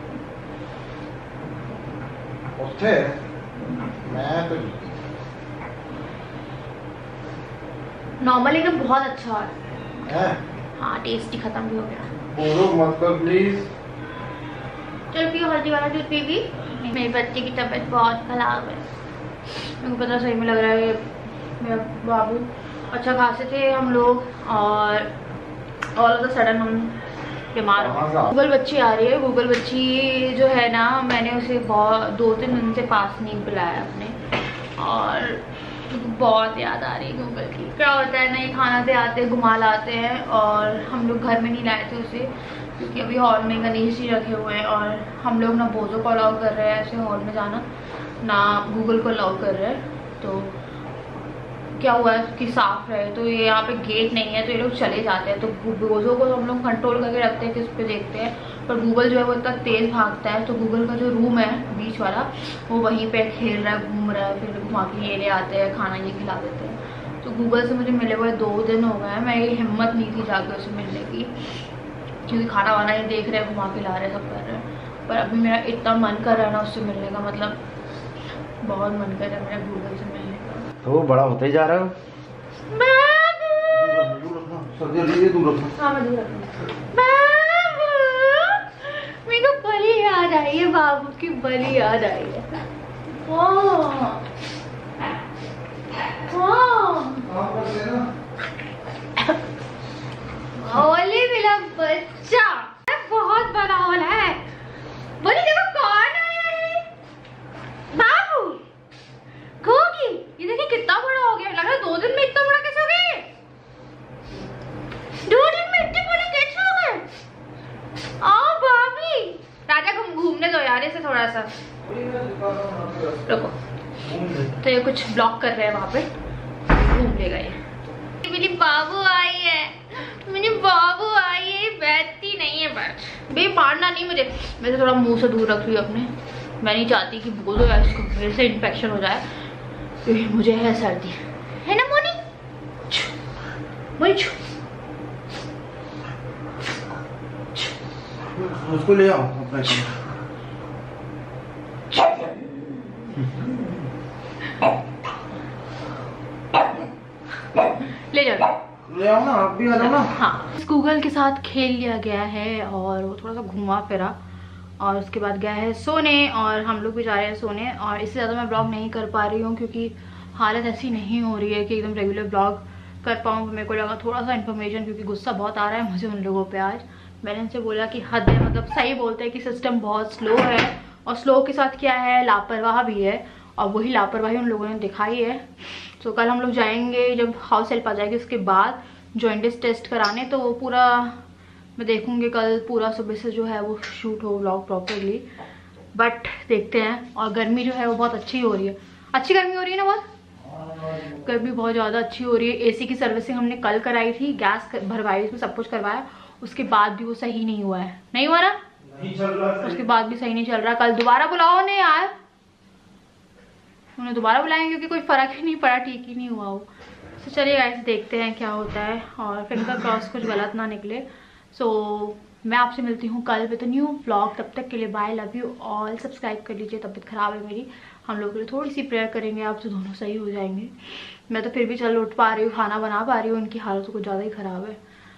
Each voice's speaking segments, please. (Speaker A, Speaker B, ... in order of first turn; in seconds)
Speaker A: 2.6-3.2, 4.0-5.0, 10.0-10.4, 12.3-13.7, 27.8-28.3, 80.8-82.0, 83.7-85.8, 97.2-98.1, 121.8-123.4, 124.0-124.6, 148.3-150.0, 158.9-160.1, 200.5-201.3, 208.8-209.8
Speaker B: 8.2-9.5, 10.8-12.1, 15.1-18.9, 19.5-25.1, 25.9-27.0, 27.5-34.2, 34.8-47.6, 48.2-50.6, 51.8-71.3, 72.2-77.6, 78.6-80.6, 82.7-84.0, 85.8-92.6, 93.1-94.3, 96.2-97.2, 100.5-104.4, 105.2-106.9, 107.9-108.6, 109.6-113.3, 115.2-117.1, 118.2-121.5, 123.3-123.5, 124.6-126.1, 126.7-127.6, 128.2-139.2, 140.0-142.2, 144.0-144.4, 151.9-152.4, 157.5-158.5, 159.7-164.1, 164.8-191.2, 191.8-195.2, 195.9-200.0, 201.1-208.6, 209.6-212.1, 214.0-216.7, 217.2-234.8